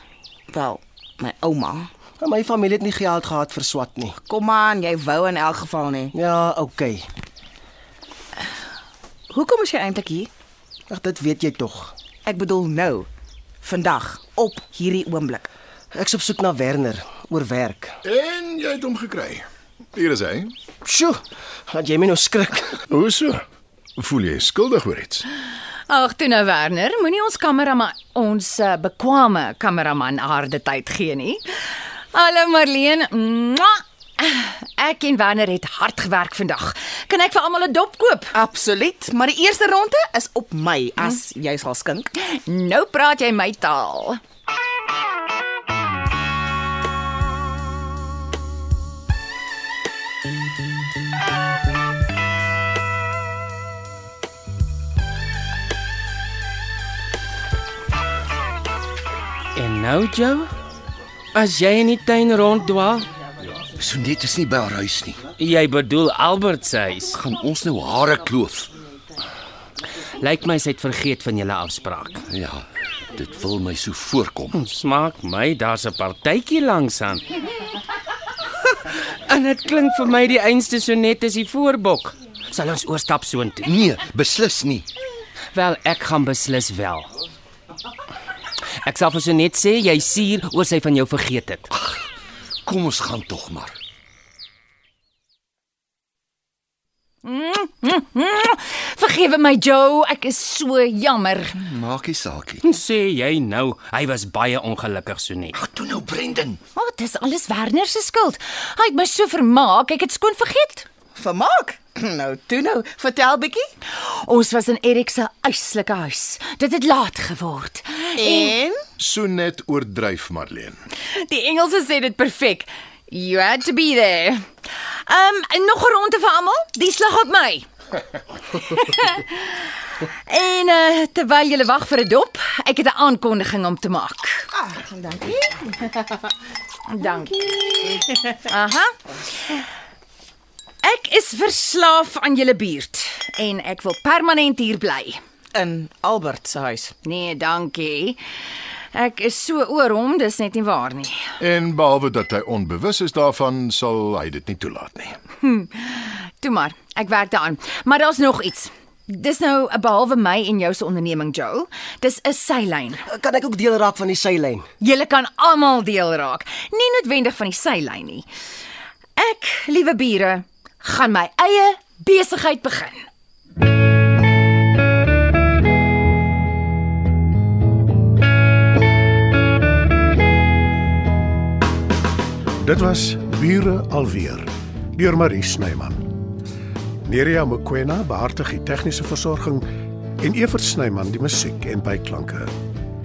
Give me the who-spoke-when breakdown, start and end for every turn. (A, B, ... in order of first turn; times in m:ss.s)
0:00.5-0:01.9 A
0:02.2-0:04.2 B
0:04.2-0:06.1 A
0:06.1-0:07.1 B
0:09.3-0:10.3 A
0:10.9-0:11.9 B
0:12.2-0:13.1 A
0:13.6-0:15.5 A
0:15.9-0:18.0 B
0:18.0-0:20.5 C
0:20.8-0:22.8 B
0:22.9-0:23.4 C
0:24.0-0:25.2 C
0:25.9-0:38.3 D
0:38.3-0:42.1 A
0:42.2-0:44.2 D
0:59.6-1:00.5 E
1:01.3-1:03.1 E
1:03.7-1:05.2 F
1:05.4-1:07.2 E
1:07.2-1:08.7 F
1:10.2-1:12.3 E
1:12.3-1:14.6 F
1:14.5-1:17.3 E
1:18.7-1:23.7 E
1:23.6-1:24.9 F
1:25.5-1:27.1 E
1:28.8-1:31.7 E
1:31.8-1:32.0 F
1:32.7-1:33.8 F
1:37.2-1:41.6 D
1:41.6-1:42.6 F
1:42.6-1:45.6 E
1:45.5-1:46.6 F
1:46.8-1:50.9 D
1:51.2-1:53.7 A
1:53.9-1:58.6 D
1:58.2-1:58.8 A
1:59.0-2:00.8 C
2:01.1-2:04.5 D
2:05.1-2:07.7 D
2:08.5-2:14.5 D
2:14.6-2:16.1 A
2:16.9-2:18.9 D
2:20.8-2:25.2 D
2:25.6-2:26.9 A
2:27.0-2:28.2 D
2:28.9-2:31.2 D
2:31.4-2:35.2 C
2:35.4-2:43.0 D
2:43.1-2:44.7 B
2:44.8-2:48.3 D
2:49.2-2:53.1 D
3:02.6-3:06.1 G
3:07.0-3:09.7 G
3:10.2-3:12.5 G